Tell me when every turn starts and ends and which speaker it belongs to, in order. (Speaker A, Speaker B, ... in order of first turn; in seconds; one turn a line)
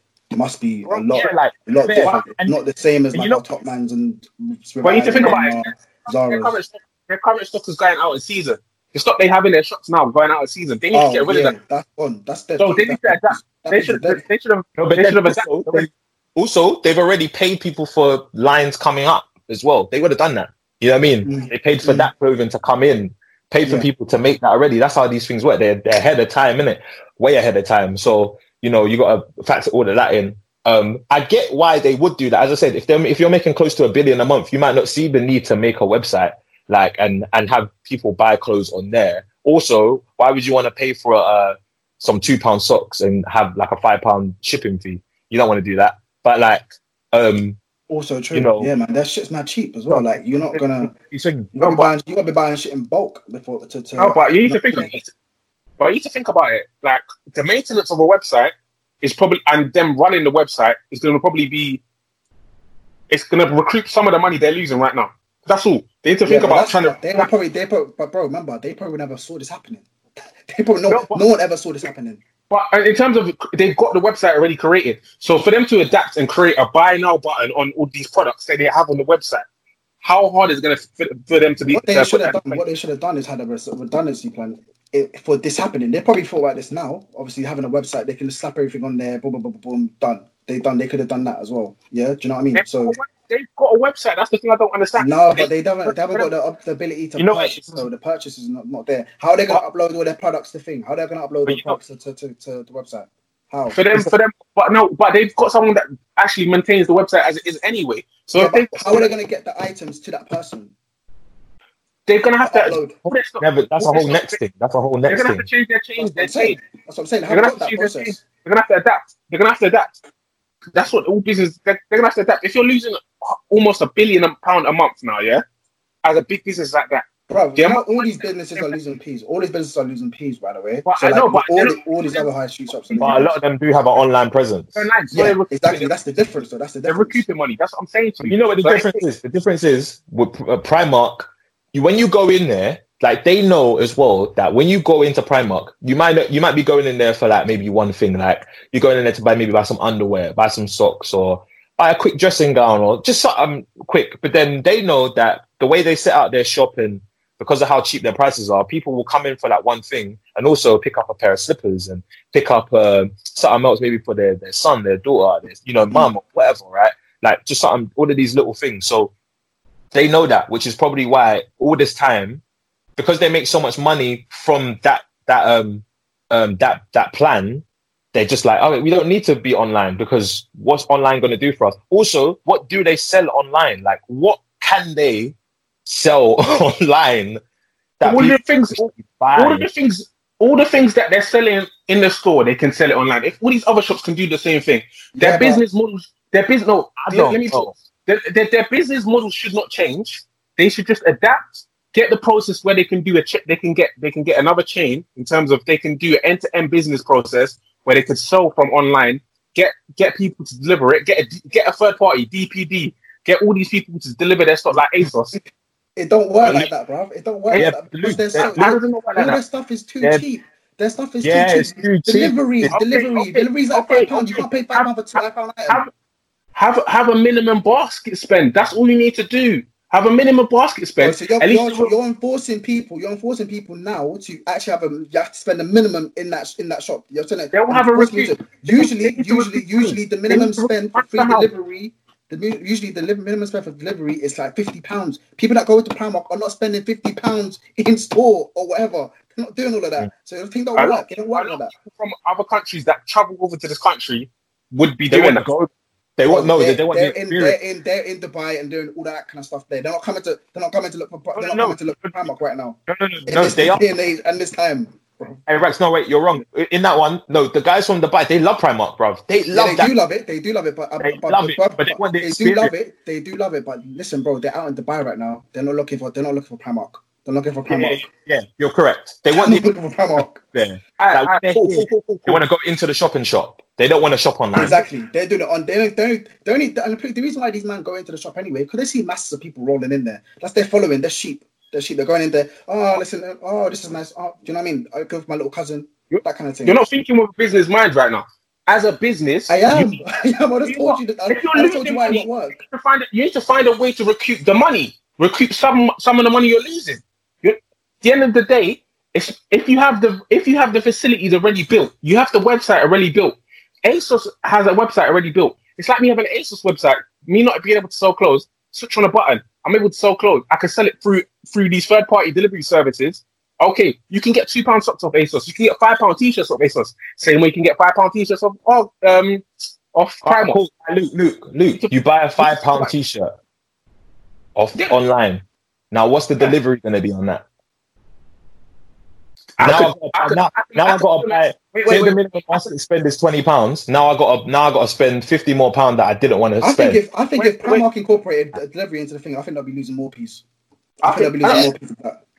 Speaker A: 0.3-6.5
Speaker B: 0.9-1.3
Speaker C: 1.1-2.6
Speaker C: 3.1-3.4
Speaker B: 4.8-11.5
Speaker A: 10.9-14.2
Speaker B: 12.6-15.9
Speaker C: 14.8-47.6
Speaker A: 21.2-22.1
Speaker A: 47.9-50.9
Speaker C: 48.3-48.7
Speaker C: 49.9-51.5
Speaker A: 51.5-54.2
Speaker B: 51.6-51.9
Speaker B: 54.0-55.1
Speaker C: 54.5-55.0
Speaker B: 55.8-61.8
Speaker B: 63.1-67.3
Speaker A: 66.3-69.9
Speaker A: 70.4-72.2
Speaker B: 70.9-71.2
Speaker B: 72.5-79.4
Speaker B: 80.0-82.6
Speaker A: 81.7-93.0
Speaker B: 92.5-96.3
Speaker A: 95.0-103.8
Speaker C: 97.2-97.9
Speaker C: 101.5-101.8
Speaker B: 103.7-109.1
Speaker A: 108.3-110.7
Speaker B: 112.1-114.4
Speaker A: 112.4-112.9
Speaker C: 113.4-115.5
Speaker B: 115.1-116.6
Speaker A: 116.0-118.2
Speaker B: 117.3-119.9
Speaker B: 120.7-125.4
Speaker B: 126.0-127.0
Speaker A: 127.3-133.3
Speaker B: 127.6-128.7
Speaker B: 130.8-132.3
Speaker B: 132.9-133.3
Speaker C: 133.0-134.9
Speaker B: 134.8-135.9
Speaker A: 135.1-137.2
Speaker B: 136.9-139.0
Speaker C: 138.2-169.1
Speaker C: 169.9-172.4
Speaker C: 173.0-187.4
Speaker C: 188.0-189.7
Speaker B: 188.0-215.3
Speaker A: 195.2-195.6
Speaker C: 197.0-197.7
Speaker A: 215.9-225.8
Speaker B: 216.4-216.7
Speaker C: 217.6-218.8
Speaker B: 218.3-219.4
Speaker C: 221.2-222.8
Speaker B: 222.7-225.9
Speaker B: 226.6-231.9
Speaker A: 231.0-251.7
Speaker B: 237.5-241.5
Speaker B: 250.8-255.4
Speaker C: 255.1-257.6
Speaker A: 256.3-265.4
Speaker C: 261.3-262.3
Speaker C: 262.9-263.8
Speaker C: 265.5-269.9
Speaker A: 269.5-278.1
Speaker C: 271.0-272.7
Speaker C: 277.7-284.8
Speaker A: 279.3-280.4
Speaker B: 281.0-282.4
Speaker A: 284.5-296.8
Speaker B: 296.1-300.0
Speaker A: 299.5-302.6
Speaker B: 300.6-330.6
Speaker C: 330.2-333.3
Speaker B: 331.7-332.9
Speaker C: 334.6-337.4
Speaker B: 339.6-342.7
Speaker C: 339.6-347.0
Speaker A: 346.6-350.4
Speaker B: 347.4-347.8
Speaker B: 351.0-351.7
Speaker A: 351.0-352.2